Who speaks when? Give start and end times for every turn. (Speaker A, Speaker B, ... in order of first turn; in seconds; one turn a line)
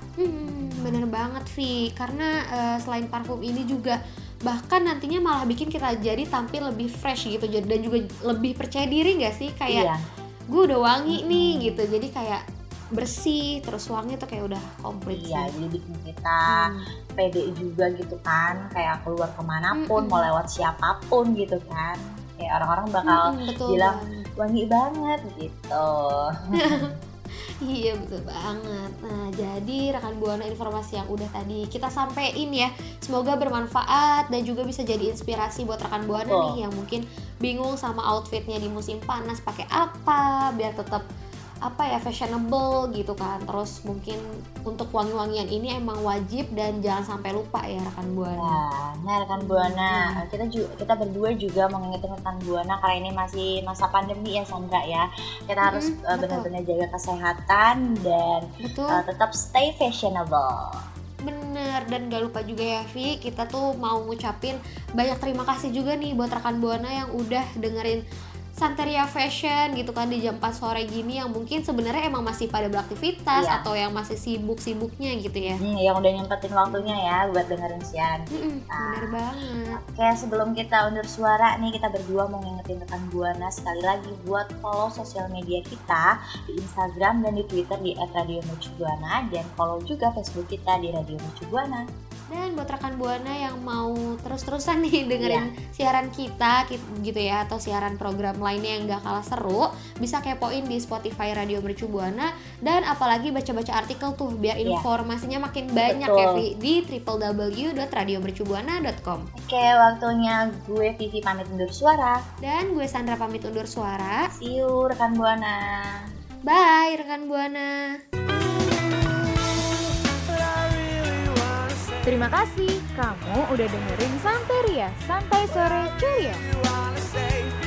Speaker A: 0.2-9.9
Speaker B: 0.5-1.0
Speaker B: 9.7-10.0
Speaker A: 10.5-12.4
Speaker B: 11.1-11.8
Speaker A: 12.9-15.5
Speaker B: 15.1-26.9
Speaker A: 16.5-16.9
Speaker A: 19.8-20.2
Speaker A: 23.0-24.2
Speaker A: 26.6-26.9
Speaker A: 27.6-41.0
Speaker B: 36.1-36.6
Speaker A: 41.6-48.6
Speaker B: 48.4-60.6
Speaker A: 49.4-50.2
Speaker A: 55.6-56.5
Speaker A: 58.6-59.0
Speaker A: 61.2-68.0
Speaker A: 68.6-75.6
Speaker B: 73.3-73.6
Speaker B: 75.6-79.1
Speaker A: 76.7-76.9
Speaker A: 78.3-79.8
Speaker B: 79.7-91.9
Speaker A: 92.3-109.3
Speaker B: 95.2-95.5
Speaker B: 105.8-106.4
Speaker B: 109.4-112.2
Speaker A: 112.4-114.3
Speaker B: 114.3-115.8
Speaker A: 116.5-117.9
Speaker C: 122.0-126.4